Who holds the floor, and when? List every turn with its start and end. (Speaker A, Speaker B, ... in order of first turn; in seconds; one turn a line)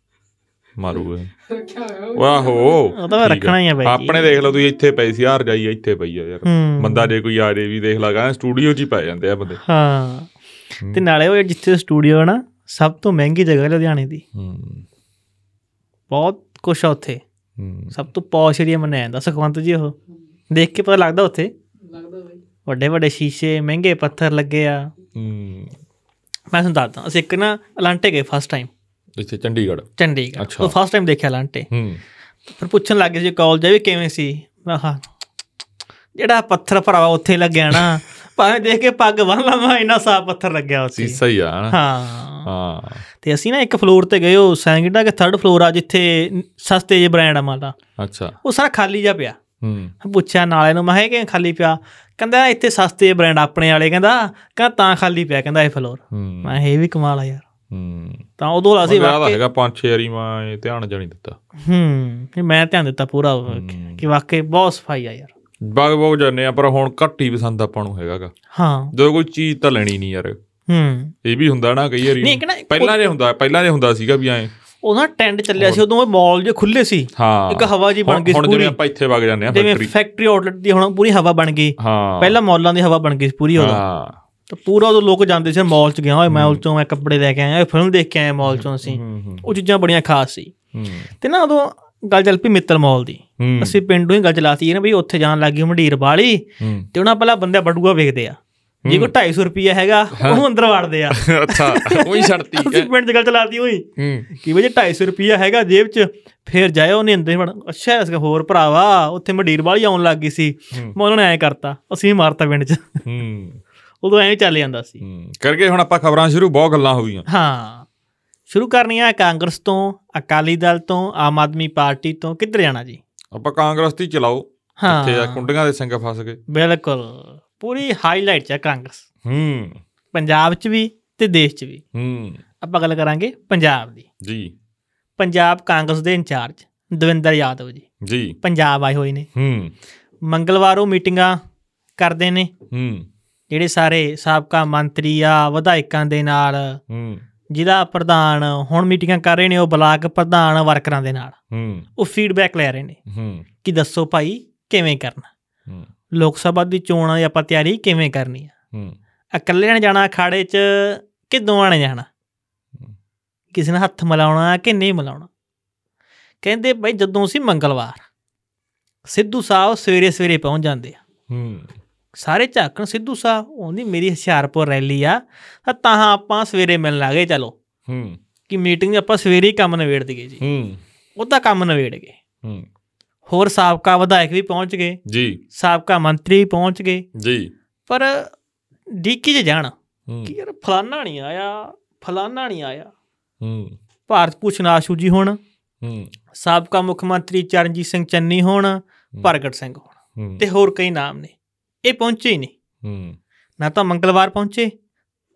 Speaker A: 0.8-1.3
Speaker B: 1.4-3.0
Speaker A: 2.1-9.6
Speaker C: 2.9-4.3
Speaker C: 6.5-7.1
Speaker C: 9.6-10.3
Speaker C: 10.9-14.2
Speaker A: 14.3-14.8
Speaker C: 16.1-17.2
Speaker A: 17.6-17.9
Speaker C: 17.9-19.9
Speaker C: 20.5-21.5
Speaker B: 21.8-22.4
Speaker C: 22.7-24.9
Speaker A: 25.1-25.8
Speaker C: 26.5-28.7
Speaker A: 29.2-30.7
Speaker C: 30.0-31.7
Speaker A: 31.7-32.0
Speaker C: 32.5-35.0
Speaker C: 36.1-42.5
Speaker A: 41.0-41.8
Speaker A: 42.5-43.0
Speaker C: 43.2-47.8
Speaker A: 48.0-48.4
Speaker C: 48.4-49.4
Speaker A: 49.6-49.9
Speaker C: 50.0-57.5
Speaker A: 56.1-56.6
Speaker A: 57.7-58.2
Speaker C: 58.4-59.4
Speaker A: 58.8-61.4
Speaker C: 61.6-65.3
Speaker A: 63.5-64.0
Speaker A: 65.6-68.3
Speaker C: 68.5-68.9
Speaker A: 68.9-70.4
Speaker C: 70.7-71.1
Speaker A: 71.2-74.5
Speaker C: 72.2-73.0
Speaker C: 74.8-78.8
Speaker A: 75.6-75.8
Speaker A: 77.2-79.9
Speaker C: 79.5-83.8
Speaker A: 81.8-82.4
Speaker A: 83.6-84.2
Speaker C: 84.5-90.5
Speaker A: 86.3-86.6
Speaker A: 88.5-89.5
Speaker A: 90.7-91.1
Speaker C: 91.2-113.0
Speaker A: 93.4-93.8
Speaker A: 96.6-96.9
Speaker A: 98.8-99.1
Speaker A: 100.2-100.4
Speaker A: 101.1-102.9
Speaker A: 104.0-104.3
Speaker A: 113.0-113.6
Speaker C: 114.0-115.0
Speaker A: 115.0-117.3
Speaker C: 117.3-117.9
Speaker C: 118.5-123.0
Speaker A: 123.3-126.4
Speaker C: 124.8-125.5
Speaker C: 126.5-129.0
Speaker A: 129.2-129.8
Speaker C: 130.1-131.8
Speaker A: 131.9-132.4
Speaker C: 132.6-134.1
Speaker A: 134.2-134.5
Speaker C: 135.2-137.8
Speaker A: 138.0-138.4
Speaker C: 138.4-139.3
Speaker A: 139.3-139.7
Speaker C: 140.3-141.4
Speaker C: 142.0-142.5
Speaker A: 142.7-143.1
Speaker C: 143.5-146.8
Speaker A: 146.9-147.2
Speaker C: 147.5-151.4
Speaker A: 151.5-151.9
Speaker C: 152.0-153.0
Speaker A: 153.1-153.5
Speaker C: 153.6-155.3
Speaker C: 156.1-158.5
Speaker C: 159.3-162.1
Speaker C: 163.5-165.3
Speaker C: 166.4-168.0
Speaker C: 169.1-171.0
Speaker A: 171.3-171.7
Speaker C: 172.2-177.6
Speaker A: 177.9-178.2
Speaker C: 178.5-180.4
Speaker A: 180.4-180.8
Speaker C: 181.2-182.2
Speaker C: 183.3-185.0
Speaker A: 185.1-185.4
Speaker C: 185.5-187.1
Speaker A: 187.2-187.5
Speaker C: 187.9-188.3
Speaker C: 188.9-189.7
Speaker A: 190.1-190.3
Speaker C: 190.2-192.9
Speaker A: 193.4-193.8
Speaker C: 194.1-195.4
Speaker A: 195.8-196.1
Speaker C: 196.3-201.3
Speaker A: 200.2-200.4
Speaker C: 201.8-202.5
Speaker A: 202.8-203.2
Speaker C: 203.6-204.7